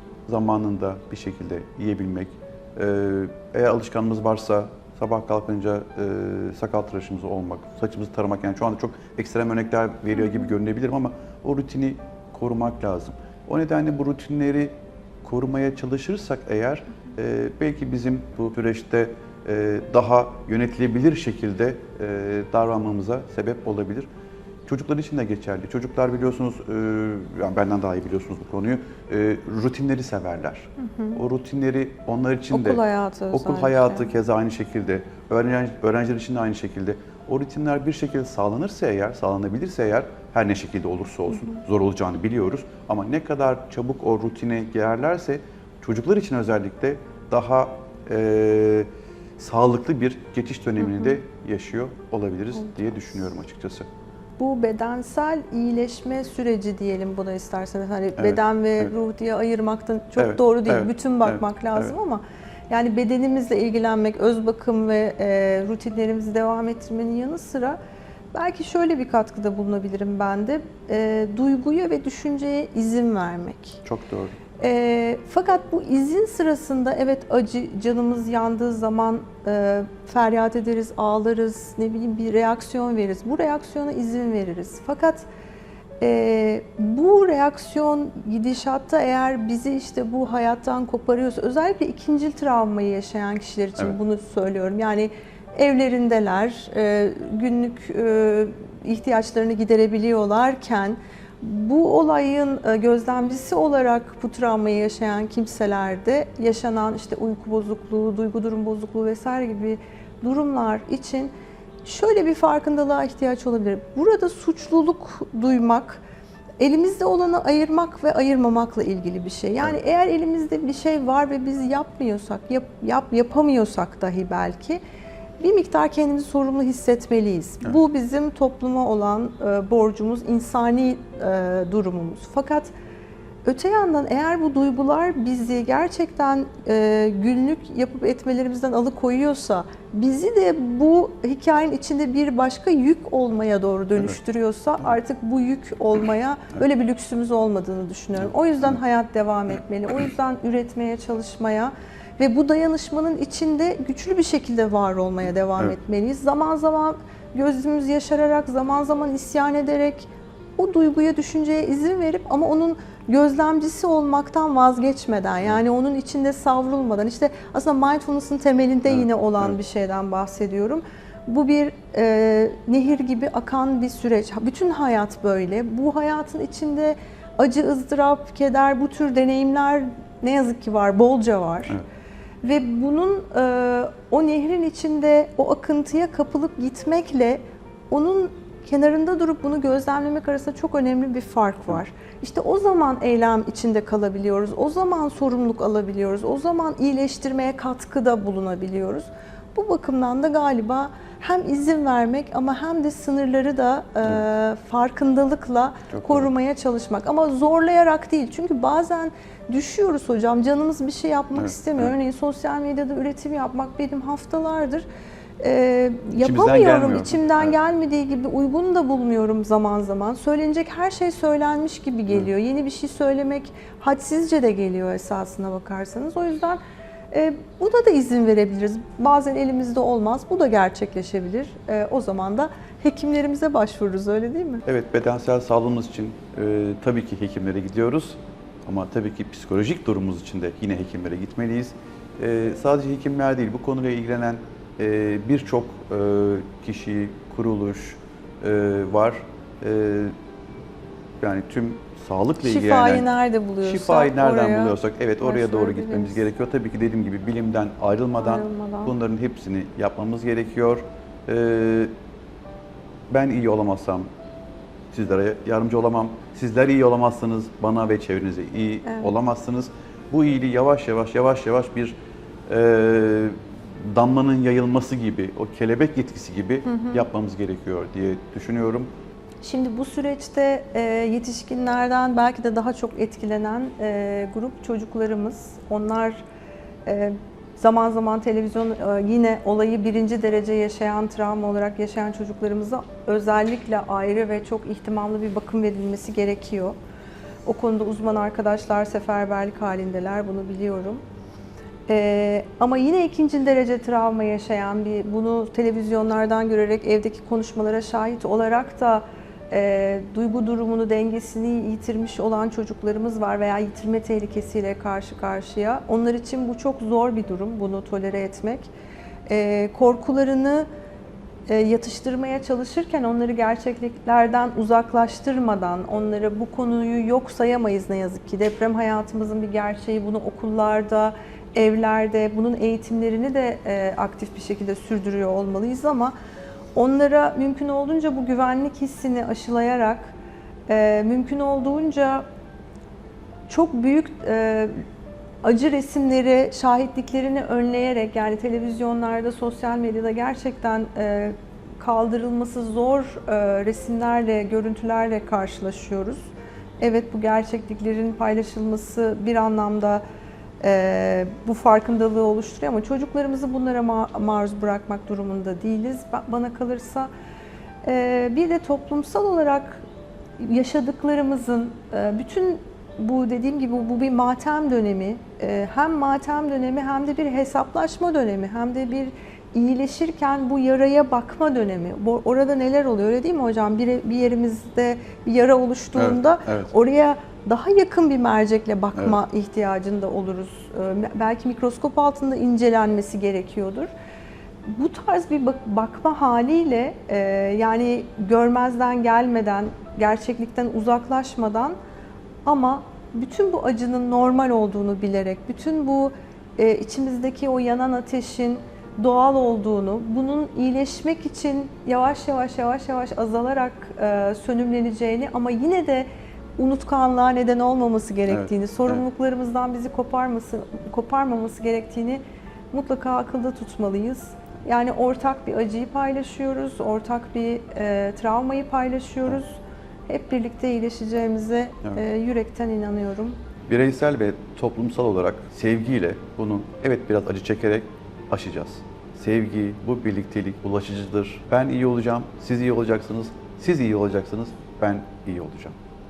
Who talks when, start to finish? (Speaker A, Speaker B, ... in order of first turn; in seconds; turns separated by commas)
Speaker A: 0.3-24.1, Speaker A: 24.6-32.8, Speaker B: 30.8-31.2, Speaker B: 32.5-34.1, Speaker A: 33.3-53.9, Speaker B: 50.8-51.1, Speaker B: 54.4-67.8, Speaker A: 58.2-58.9, Speaker A: 60.2-61.9, Speaker B: 68.3-73.8, Speaker A: 73.8-74.3, Speaker B: 74.6-85.3, Speaker B: 86.0-111.3, Speaker B: 111.8-116.0, Speaker B: 116.6-124.8, Speaker B: 125.4-132.7, Speaker B: 133.4-181.8, Speaker B: 182.4-214.8, Speaker A: 205.9-206.3, Speaker A: 211.3-211.9, Speaker B: 215.4-226.6, Speaker A: 216.2-217.6, Speaker B: 227.1-234.6, Speaker A: 234.7-250.2, Speaker A: 251.2-253.1, Speaker B: 252.4-256.2, Speaker A: 253.6-261.9, Speaker B: 258.2-258.9, Speaker A: 263.1-264.1, Speaker A: 264.9-271.9, Speaker B: 268.8-269.1, Speaker A: 272.5-278.9, Speaker B: 276.7-277.0, Speaker B: 279.4-286.2, Speaker B: 286.8-296.8, Speaker B: 297.4-301.0, Speaker B: 301.9-318.7, Speaker B: 319.3-320.7, Speaker B: 321.5-336.1, Speaker B: 336.7-340.1, Speaker B: 340.7-342.2, Speaker B: 343.5-344.7, Speaker B: 345.4-360.0, Speaker B: 360.6-367.1, Speaker B: 367.8-369.8, Speaker B: 370.4-393.9, Speaker A: 385.9-386.7, Speaker B: 394.6-401.7, Speaker B: 402.4-433.4, Speaker A: 418.3-419.0, Speaker A: 433.7-445.8